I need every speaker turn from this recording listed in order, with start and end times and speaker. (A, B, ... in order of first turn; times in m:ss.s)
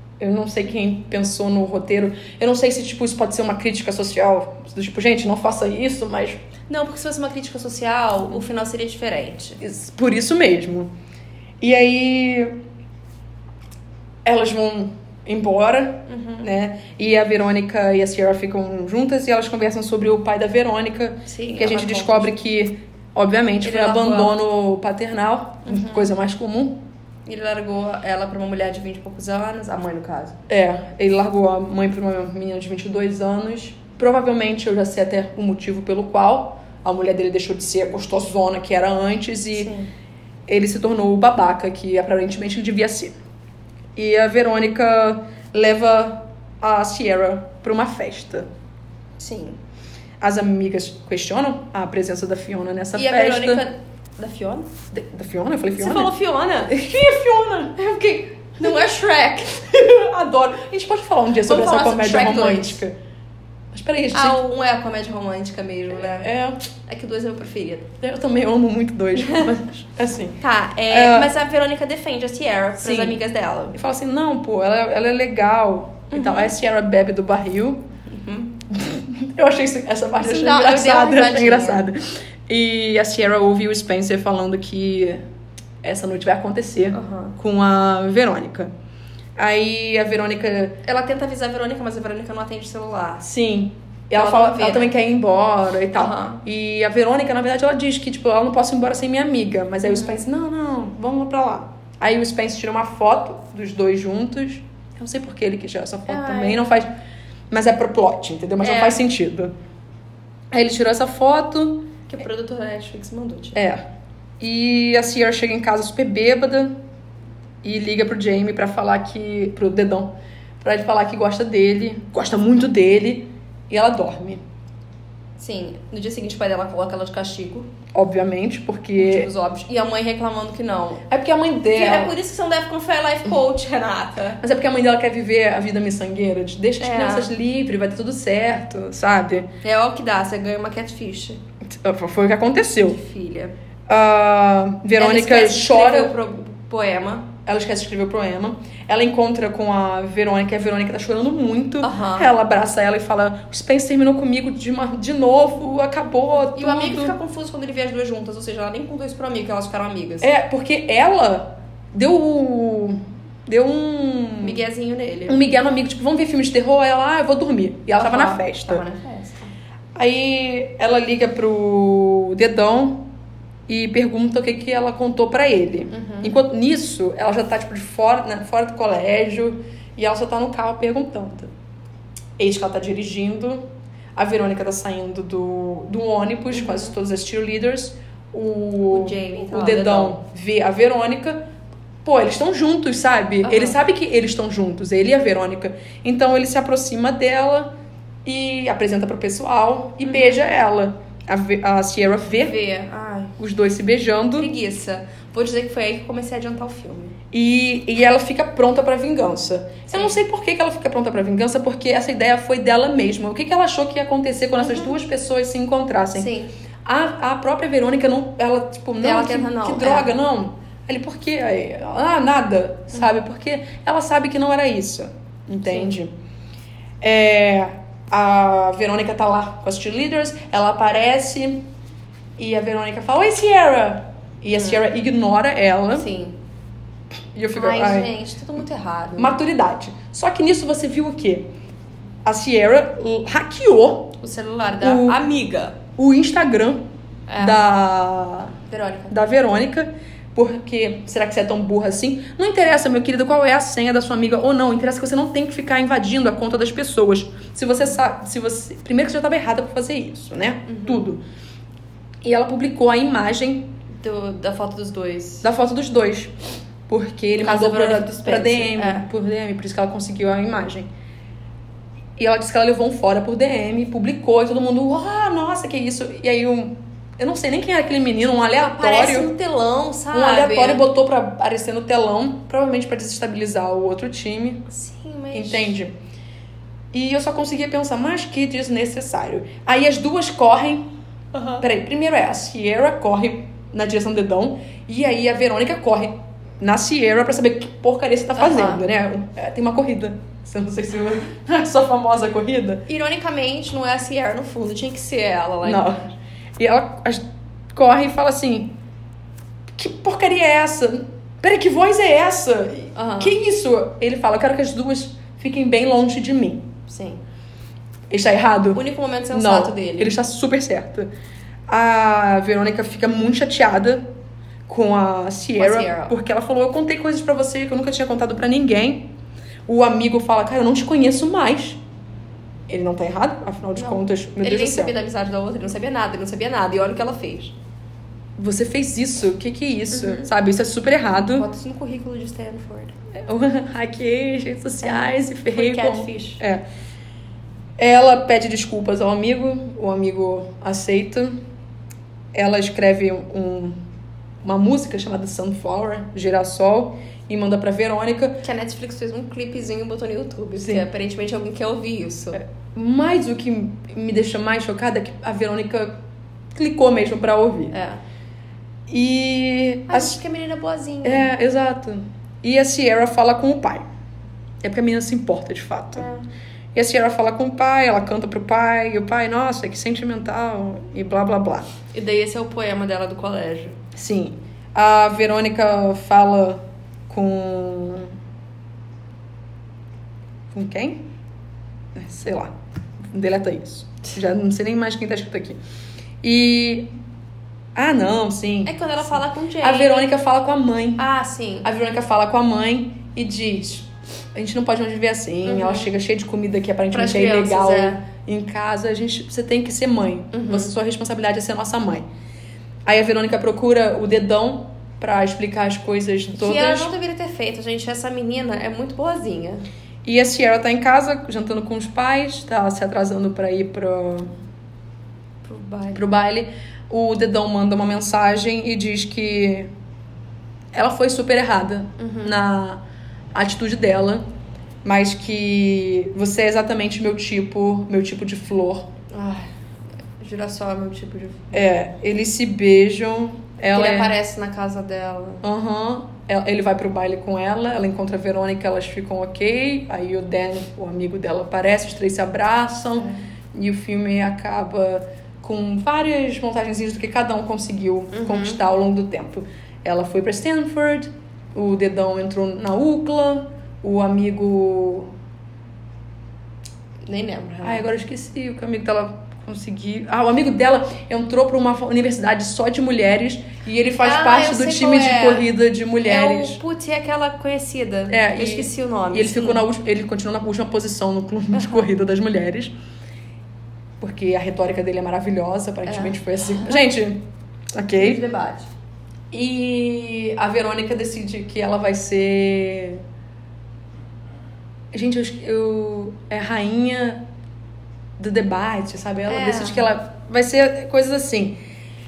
0:00.2-0:06.4 A
0:06.7-0:09.6 B
0:09.6-0:10.9 A
0:11.6-0:12.6 A
0:14.2-0:26.7 A
0:16.1-0:16.5 B
0:21.2-0:22.4 B
0:23.6-0:24.4 B
0:25.6-0:26.1 B
0:27.2-0:30.3 B
0:30.5-0:39.7 A
0:39.5-0:39.9 B
0:40.5-0:43.1 A
0:44.0-0:48.5 A
0:49.2-0:49.6 B
0:50.2-0:53.6 A
0:52.9-0:54.7 B
0:54.9-0:56.1 A
0:55.8-0:56.7 B
0:56.7-0:57.8 A
0:57.8-0:59.6 B
0:59.5-1:02.9 A
1:01.4-1:02.8 B
1:03.7-1:04.4 A
1:04.1-1:06.3 B
1:05.9-1:06.6 A
1:06.8-1:07.9 B
1:08.0-1:11.3 A
1:09.1-1:09.5 B
1:10.4-1:13.8 B
1:12.8-1:13.2 A
1:13.7-1:17.8 A
1:16.1-1:16.5 B
1:18.1-1:18.5 B
1:18.7-1:25.2 A
1:20.2-1:21.8 B
1:25.8-1:28.7 A
1:26.9-1:27.4 B
1:29.4-1:30.8 A
1:30.8-1:33.2 B
1:33.2-1:46.9 A
1:34.1-1:34.9 B
1:36.0-1:36.4 B
1:39.8-1:40.2 B
1:46.0-1:46.7 B
1:47.5-1:49.5 A
1:48.6-1:49.0 B
1:50.5-1:51.8 A
1:52.1-1:53.6 B
1:53.5-1:53.8 A
1:54.4-1:56.7 A
1:57.6-2:04.4 A
2:05.4-2:07.7 B
2:07.9-2:09.3 A
2:09.0-2:11.0 B
2:11.1-2:12.1 A
2:11.7-2:14.4 B
2:14.4-2:19.5 A
2:16.8-2:17.3 B
2:19.6-2:21.4 B
2:21.7-2:23.0 A
2:22.8-2:23.5 B
2:23.9-2:26.1 A
2:25.0-2:27.3 B
2:27.4-2:37.2 A
2:31.8-2:32.3 B
2:36.4-2:40.3 B
2:40.2-2:44.6 A
2:44.4-2:45.4 B
2:45.3-2:48.8 A
2:48.0-2:49.5 B
2:49.9-2:53.0 A
2:53.7-3:01.5 A
2:55.9-2:56.4 B
3:02.4-3:03.6 A
3:04.2-3:11.4 A
3:06.5-3:06.9 B
3:08.9-3:10.2 B
3:12.0-3:17.7 A
3:13.4-3:13.8 B
3:18.2-3:22.5 A
3:20.0-3:20.4 B
3:22.4-3:23.4 B
3:23.4-3:24.5 A
3:24.4-3:27.2 B
3:27.3-3:36.3 A
3:34.6-3:35.0 B
3:36.1-3:36.5 B
3:36.8-3:46.1 A
3:39.0-3:40.1 B
3:45.7-3:45.9 B
3:47.0-3:51.6 A
3:52.4-3:56.1 A
3:54.5-3:54.8 B
3:55.9-3:56.4 B
3:57.3-3:58.1 A
3:57.5-3:59.4 B
3:59.2-4:01.5 A
4:02.2-4:04.1 A
4:04.2-4:05.8 B
4:04.8-4:05.2 A
4:06.0-4:06.8 A
4:07.3-4:07.6 B
4:07.4-4:08.6 A
4:08.7-4:09.1 B
4:09.1-4:21.2 A
4:20.7-4:21.1 B
4:22.2-4:23.7 A
4:23.9-4:25.5 B
4:25.4-4:26.3 A
4:26.9-4:30.9 A
4:27.3-4:29.1 B
4:32.2-4:39.3 A
4:38.6-4:40.8 B
4:40.1-4:44.6 A
4:44.7-4:45.7 B
4:45.3-4:45.9 A
4:46.9-4:50.8 A
4:51.3-4:51.6 B
4:51.6-5:02.8 A
4:58.4-4:58.8 B
5:02.9-5:06.1 B
5:05.6-5:06.0 A
5:06.6-5:07.2 A
5:07.7-5:08.7 A
5:09.8-5:16.6 A
5:12.9-5:13.4 B
5:16.9-5:17.2 B
5:18.1-5:21.1 A
5:18.7-5:20.2 B
5:21.7-5:24.0 A
5:24.7-5:29.1 A
5:25.6-5:26.1 B
5:29.7-5:31.8 A
5:32.7-5:34.9 A
5:33.8-5:37.5 B
5:38.4-5:41.5 A
5:39.9-5:40.3 B
5:41.3-5:43.0 B
5:43.2-5:46.6 A
5:44.8-5:46.4 B
5:47.8-5:51.4 A
5:52.3-5:53.8 A
5:54.4-5:58.4 A
5:58.4-6:02.4 B
6:00.6-6:00.8 A
6:02.3-6:05.9 A
6:06.5-6:07.7 A
6:07.7-6:08.0 B
6:08.9-6:10.2 A
6:09.9-6:11.3 B
6:11.0-6:13.8 A
6:14.6-6:16.0 A
6:15.9-6:16.3 B
6:16.7-6:21.7 A
6:21.9-6:23.8 B
6:23.9-6:28.1 A
6:30.5-6:31.0 A
6:31.9-6:32.5 A
6:33.1-6:35.6 A
6:36.2-6:36.9 A
6:37.8-6:41.0 A
6:38.6-6:40.1 B
6:41.0-6:41.7 B
6:41.6-6:52.0 A
6:45.4-6:45.9 B
6:46.9-6:48.0 B
6:50.3-6:50.7 B
6:52.8-6:56.9 A
6:56.3-6:59.6 B
7:00.0-7:04.3 A
7:05.4-7:06.0 B
7:05.9-7:09.7 A
7:10.7-7:12.8 A
7:12.0-7:12.4 B
7:13.3-7:14.2 A
7:14.8-7:18.9 A
7:19.1-7:19.5 B
7:20.2-7:21.7 B
7:21.5-7:24.1 A
7:23.7-7:25.4 B
7:25.4-7:45.1 A
7:38.1-7:38.6 B
7:47.0-7:47.9 B
7:47.6-7:56.6 A
7:54.0-7:55.5 B
7:56.0-7:59.6 B
7:58.1-8:02.7 A
8:01.5-8:01.9 B
8:04.0-8:07.2 A
8:05.8-8:07.0 B
8:07.7-8:08.2 A
8:08.0-8:08.7 B
8:09.3-8:13.0 A
8:14.9-8:17.2 A
8:18.2-8:21.5 A
8:19.3-8:19.9 B